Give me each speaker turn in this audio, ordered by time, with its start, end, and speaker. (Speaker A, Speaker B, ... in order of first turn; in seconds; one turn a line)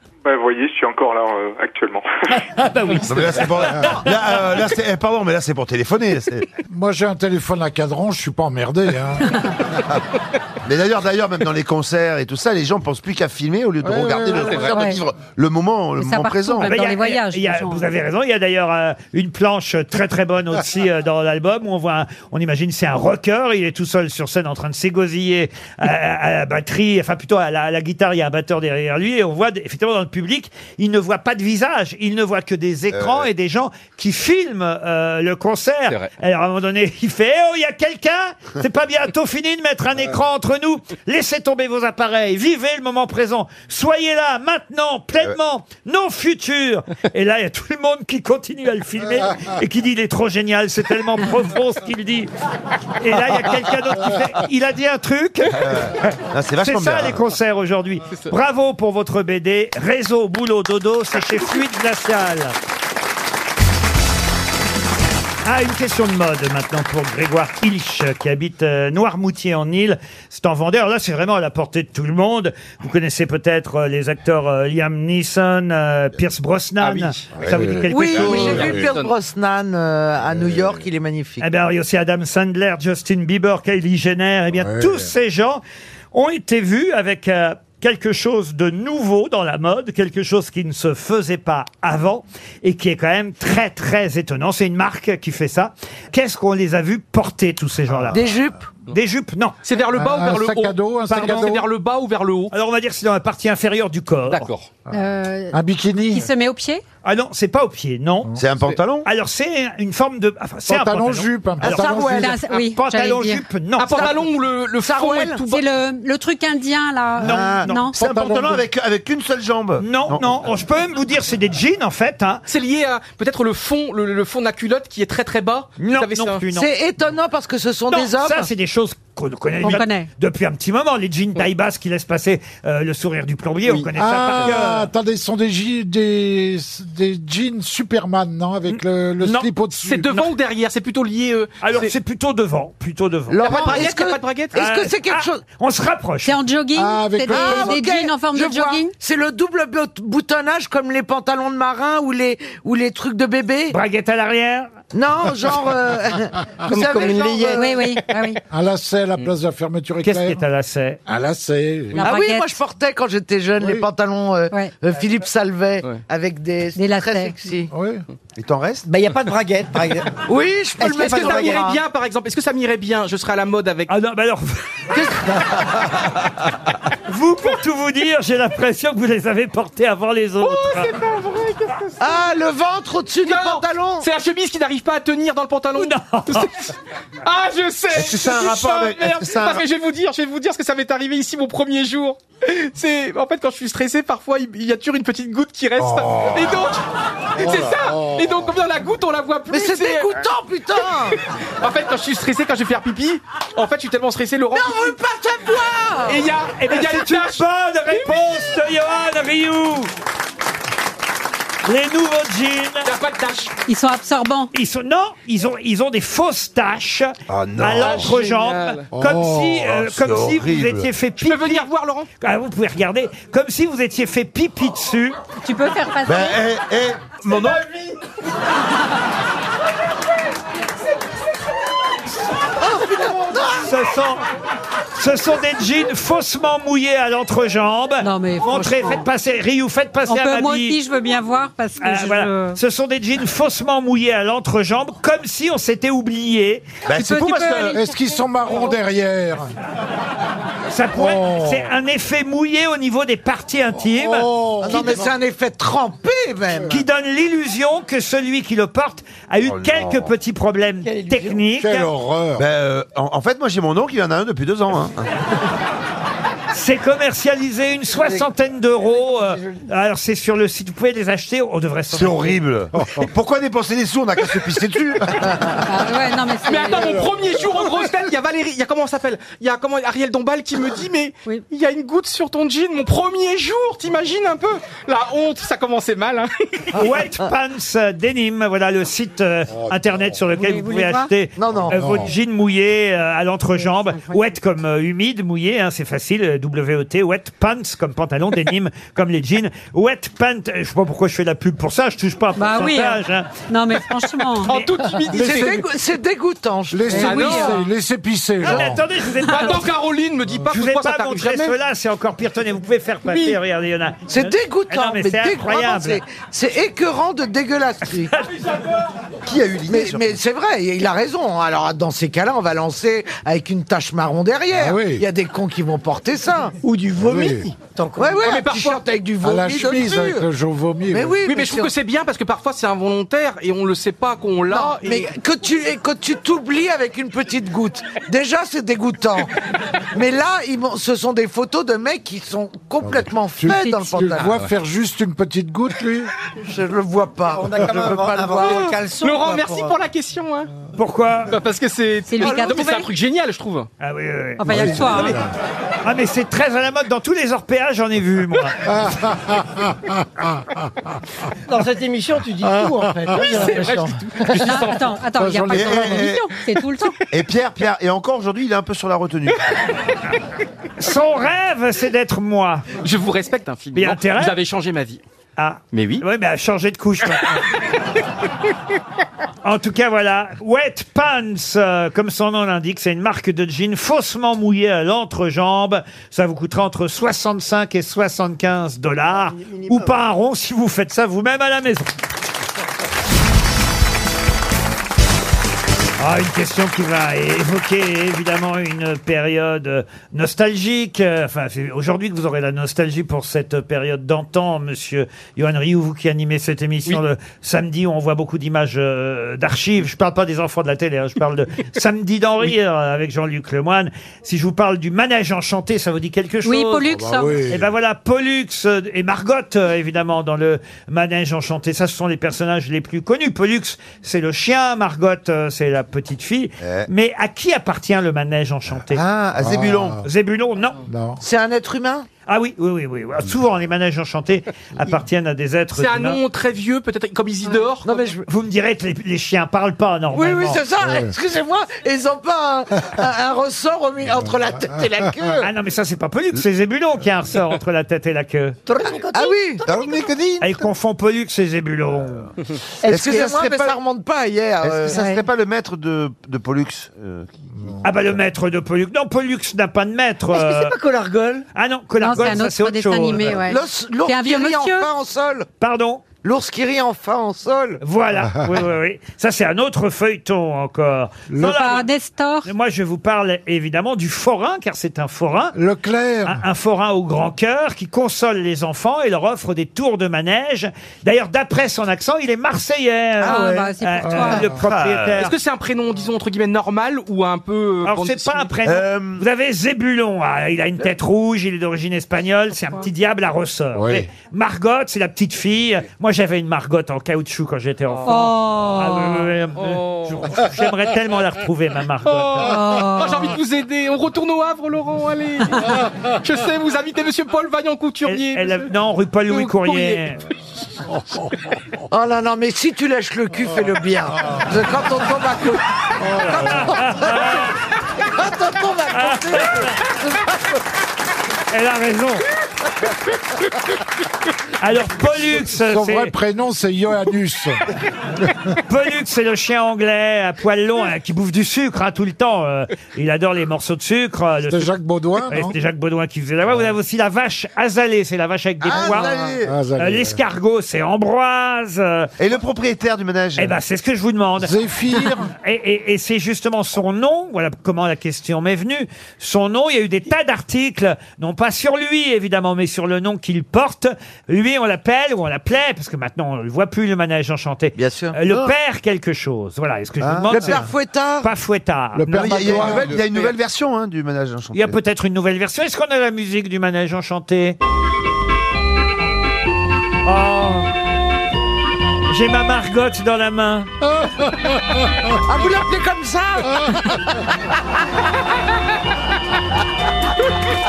Speaker A: 0.2-2.4
Speaker B: 2.3-4.4
Speaker C: 3.0-6.5
Speaker D: 6.7-9.7
Speaker C: 10.6-16.8
Speaker D: 13.8-14.6
Speaker E: 14.5-15.0
Speaker E: 16.0-17.9
Speaker B: 16.6-52.3
Speaker C: 32.9-33.3
Speaker B: 53.0-62.5
Speaker C: 55.5-57.2
Speaker B: 65.4-78.8
Speaker F: 76.8-77.2
Speaker D: 77.4-78.8
Speaker G: 77.9-81.5
Speaker C: 78.1-78.7
Speaker F: 78.5-79.1
Speaker B: 81.4-85.6
Speaker D: 84.6-85.1
Speaker B: 86.1-98.2
Speaker G: 98.1-98.6
Speaker B: 98.9-99.6
Speaker F: 99.6-102.5
Speaker D: 99.9-101.6
Speaker B: 101.1-101.5
Speaker B: 102.5-104.5
Speaker F: 104.3-104.7
Speaker E: 104.9-106.8
Speaker D: 105.5-106.3
Speaker B: 107.0-108.3
Speaker C: 108.4-109.1
Speaker B: 109.0-114.1
Speaker D: 110.7-112.4
Speaker G: 111.6-112.4
Speaker E: 112.1-113.4
Speaker F: 113.8-115.6
Speaker G: 114.8-115.4
Speaker E: 115.5-118.0
Speaker B: 117.2-117.9
Speaker C: 117.2-120.4
Speaker D: 117.9-118.6
Speaker B: 119.8-122.4
Speaker F: 122.5-126.4
Speaker B: 125.8-126.7
Speaker G: 126.5-128.5
Speaker B: 127.9-134.9
Speaker E: 129.6-130.1
Speaker D: 133.9-140.1
Speaker B: 138.7-139.5
Speaker F: 139.8-141.9
Speaker B: 141.6-143.8
Speaker G: 143.3-145.4
Speaker F: 143.4-144.5
Speaker B: 144.5-146.3
Speaker E: 146.2-148.9
Speaker D: 146.7-147.8
Speaker G: 147.3-153.7
Speaker B: 153.7-154.7
Speaker G: 154.9-157.8
Speaker H: 156.7-157.7
Speaker E: 157.6-158.4
Speaker D: 158.5-160.4
Speaker B: 160.0-161.0
Speaker D: 161.1-162.1
Speaker E: 161.9-162.5
Speaker G: 162.0-167.7
Speaker D: 163.6-163.8
Speaker E: 166.8-167.3
Speaker D: 167.7-168.0
Speaker C: 168.4-168.9
Speaker H: 168.8-170.1
Speaker G: 170.3-171.8
Speaker F: 170.8-173.9
Speaker H: 170.8-171.6
Speaker B: 173.9-175.0
Speaker G: 174.9-175.6
Speaker B: 177.1-180.9
Speaker F: 180.4-182.2
Speaker G: 182.0-184.1
Speaker F: 183.2-196.8
Speaker B: 185.8-186.5
Speaker C: 187.9-189.6
Speaker D: 195.8-196.7
Speaker F: 197.3-200.1
Speaker D: 197.4-198.4
Speaker G: 199.5-201.2
Speaker F: 201.6-204.9
Speaker G: 204.5-206.2
Speaker F: 206.0-207.4
Speaker B: 206.6-209.9
Speaker B: 211.6-212.9
Speaker F: 212.8-213.5
Speaker E: 213.7-214.5
Speaker B: 214.5-221.7
Speaker C: 217.3-218.2
Speaker F: 217.9-218.8
Speaker C: 219.0-220.9
Speaker F: 221.2-222.1
Speaker B: 222.2-225.2
Speaker E: 225.4-226.4
Speaker C: 226.0-227.7
Speaker G: 232.6-233.7
Speaker B: 233.6-234.2
Speaker B: 234.9-240.8
Speaker E: 238.0-239.0
Speaker E: 240.1-242.6
Speaker B: 241.8-246.6
Speaker C: 246.8-247.8
Speaker E: 246.9-247.8
Speaker D: 247.7-249.5
Speaker B: 250.7-254.2
Speaker D: 250.9-251.7
Speaker D: 253.9-255.0
Speaker C: 254.6-255.1
Speaker G: 254.6-256.8
Speaker B: 256.7-261.9
Speaker C: 259.4-260.1
Speaker H: 260.8-261.4
Speaker D: 261.6-262.4
Speaker C: 262.4-265.1
Speaker B: 266.5-272.4
Speaker C: 271.9-275.6
Speaker E: 275.6-277.1
Speaker F: 276.4-286.7
Speaker B: 286.7-303.3
Speaker D: 289.7-290.1
Speaker E: 290.3-291.1
Speaker G: 291.4-291.8
Speaker D: 291.6-292.1
Speaker E: 302.4-304.5
Speaker F: 304.4-305.6
Speaker G: 305.1-307.4
Speaker D: 305.1-305.6
Speaker D: 306.7-308.8
Speaker E: 306.9-307.6
Speaker F: 307.0-307.6
Speaker B: 308.4-309.7
Speaker F: 309.1-311.6
Speaker B: 310.5-316.0
Speaker F: 313.1-313.4
Speaker G: 314.1-318.1
Speaker C: 319.2-320.2
Speaker G: 319.7-326.5
Speaker D: 324.5-325.0
Speaker H: 326.6-328.4
Speaker D: 327.0-327.5
Speaker G: 328.0-330.2
Speaker F: 328.2-328.8
Speaker D: 329.2-331.2
Speaker G: 330.9-331.7
Speaker F: 331.2-335.1
Speaker G: 334.5-339.4
Speaker G: 339.9-344.4
Speaker D: 342.8-346.1
Speaker E: 343.5-344.1
Speaker G: 346.4-348.7
Speaker H: 347.3-349.8
Speaker F: 348.4-350.5
Speaker B: 350.8-351.3
Speaker F: 351.3-353.7
Speaker E: 352.1-352.9
Speaker B: 353.8-354.9
Speaker E: 354.4-355.2
Speaker D: 354.4-355.3
Speaker B: 355.8-358.6
Speaker D: 358.7-359.9
Speaker H: 361.5-364.5
Speaker F: 363.1-364.9
Speaker E: 364.4-366.9
Speaker D: 365.2-366.1
Speaker C: 365.4-366.4
Speaker C: 367.1-369.4
Speaker B: 370.8-372.6
Speaker F: 372.8-375.0
Speaker B: 373.7-374.3
Speaker B: 375.4-377.4
Speaker F: 375.7-376.0
Speaker B: 379.4-391.9
Speaker H: 389.4-389.9
Speaker B: 396.0-416.9
Speaker E: 416.4-417.4
Speaker D: 416.9-417.7
Speaker B: 417.4-429.0
Speaker C: 426.6-426.9
Speaker C: 428.9-430.0
Speaker D: 429.4-430.0
Speaker B: 430.0-430.8
Speaker D: 430.9-431.2
Speaker G: 431.2-432.1
Speaker B: 432.3-436.2
Speaker F: 435.7-437.9
Speaker G: 437.8-438.2
Speaker B: 438.3-440.6
Speaker G: 440.1-445.5
Speaker D: 440.8-441.1
Speaker B: 445.4-448.6
Speaker H: 448.6-449.5
Speaker G: 449.1-449.6
Speaker C: 449.6-450.6
Speaker B: 450.4-452.3
Speaker G: 452.8-455.1
Speaker C: 452.9-453.8
Speaker C: 454.6-457.7
Speaker B: 457.8-460.7
Speaker H: 460.3-461.4
Speaker B: 461.5-463.4
Speaker E: 462.0-464.9
Speaker G: 463.4-465.5
Speaker B: 465.6-466.0
Speaker G: 466.2-467.8
Speaker B: 467.8-471.9
Speaker D: 471.3-471.6
Speaker E: 471.4-472.5
Speaker B: 472.4-475.6
Speaker D: 475.5-476.4
Speaker B: 476.2-485.3
Speaker E: 483.2-484.5
Speaker G: 483.3-483.7
Speaker D: 484.0-484.6
Speaker C: 484.6-485.2
Speaker F: 485.2-488.5
Speaker B: 487.8-502.5
Speaker C: 488.6-489.2
Speaker D: 493.7-494.1
Speaker E: 498.1-499.3
Speaker F: 502.0-508.7
Speaker E: 502.4-503.3
Speaker B: 508.1-510.2
Speaker D: 511.0-511.3
Speaker G: 511.9-517.4
Speaker B: 516.1-517.6
Speaker G: 518.1-520.3
Speaker B: 518.9-519.7
Speaker B: 521.5-522.2
Speaker B: 524.6-526.1
Speaker D: 525.6-527.6
Speaker D: 528.2-528.5
Speaker B: 528.7-534.7
Speaker D: 534.5-535.5
Speaker B: 535.3-539.1
Speaker C: 538.6-539.5
Speaker D: 539.4-540.2
Speaker B: 539.8-542.1
Speaker C: 542.2-543.6
Speaker B: 543.4-544.5
Speaker D: 544.4-545.3
Speaker B: 545.4-560.7
Speaker C: 557.7-558.5
Speaker C: 560.0-560.6
Speaker G: 560.3-561.3
Speaker B: 561.2-562.7
Speaker D: 562.0-563.0
Speaker C: 562.1-564.8
Speaker B: 564.5-567.5
Speaker B: 570.0-570.7
Speaker B: 572.1-573.7
Speaker G: 575.3-577.0